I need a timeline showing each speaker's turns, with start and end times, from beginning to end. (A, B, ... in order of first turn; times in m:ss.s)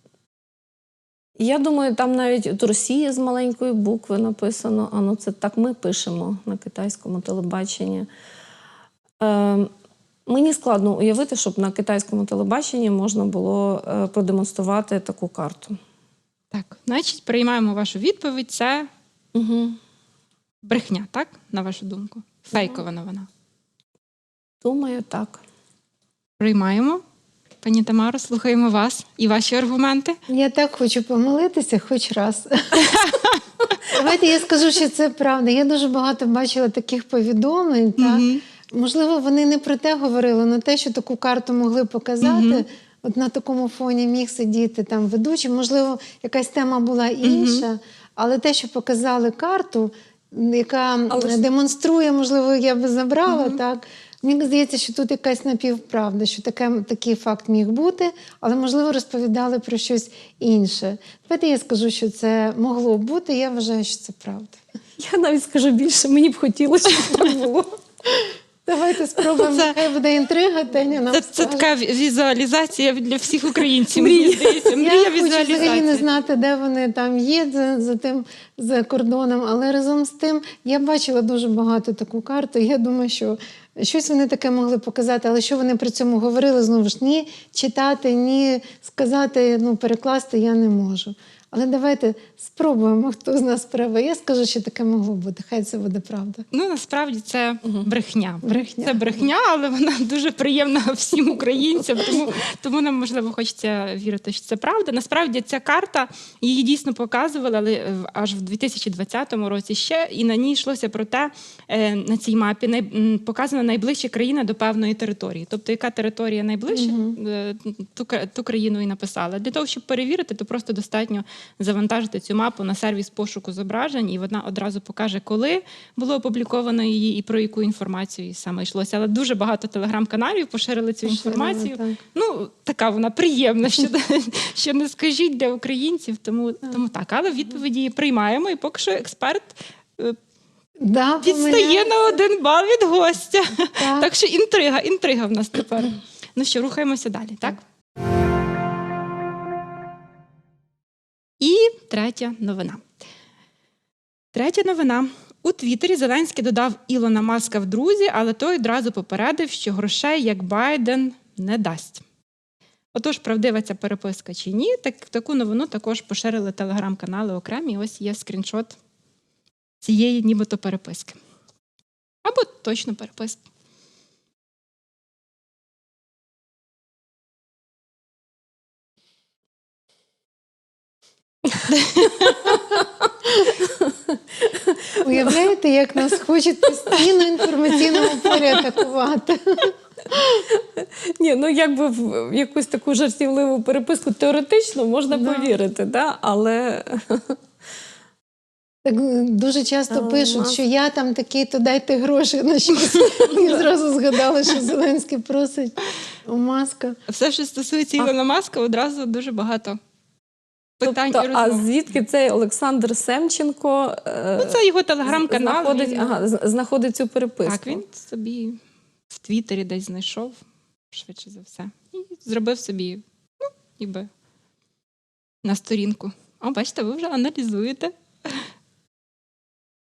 0:01.4-0:08.1 A
0:09.2-0:09.7 A
0:10.3-0:15.8 A
0:16.5-0:18.9 B
0:19.3-0:19.8 A
0:20.6-0:23.3 B
0:24.6-0:25.4 A
0:26.4-0:27.0 B
0:27.6-0:30.2 B
0:30.3-0:33.1 C
0:32.8-0:33.4 B
0:33.9-1:04.6 C
0:38.0-0:38.4 B
0:42.2-0:42.6 B
0:47.2-0:47.6 B
0:51.1-0:51.5 A
0:53.3-0:53.6 B
1:05.0-1:07.8 A
1:07.0-1:07.2 B
1:08.1-1:11.7 C
1:09.4-1:09.8 B
1:11.1-1:16.0 B
1:13.9-1:14.8 A
1:14.8-1:36.4 C
1:36.5-2:20.2 B
1:38.4-1:39.2 C
1:56.7-1:57.2 C
2:11.0-2:12.0 C
2:20.8-2:22.2 C
2:21.2-2:27.6 B
2:23.8-2:24.1 C
2:31.4-2:32.9 B
2:34.3-2:42.0 B
2:42.9-2:48.8 B
2:49.8-2:51.2 B
2:52.2-2:53.4 B
3:01.7-3:02.6 B
3:03.6-3:05.4 A
3:05.0-3:10.4 C
3:07.7-3:08.6 A
3:10.3-3:17.4 A
3:15.1-3:15.6 C
3:18.8-3:27.0 C
3:19.9-3:20.6 A
3:27.1-3:29.8 B
3:30.8-3:31.7 B
3:30.8-3:37.9 A
3:34.4-3:36.2 B
3:37.4-3:38.6 B
3:39.1-3:43.0 B
3:43.8-3:44.1 B
3:45.4-3:48.5 B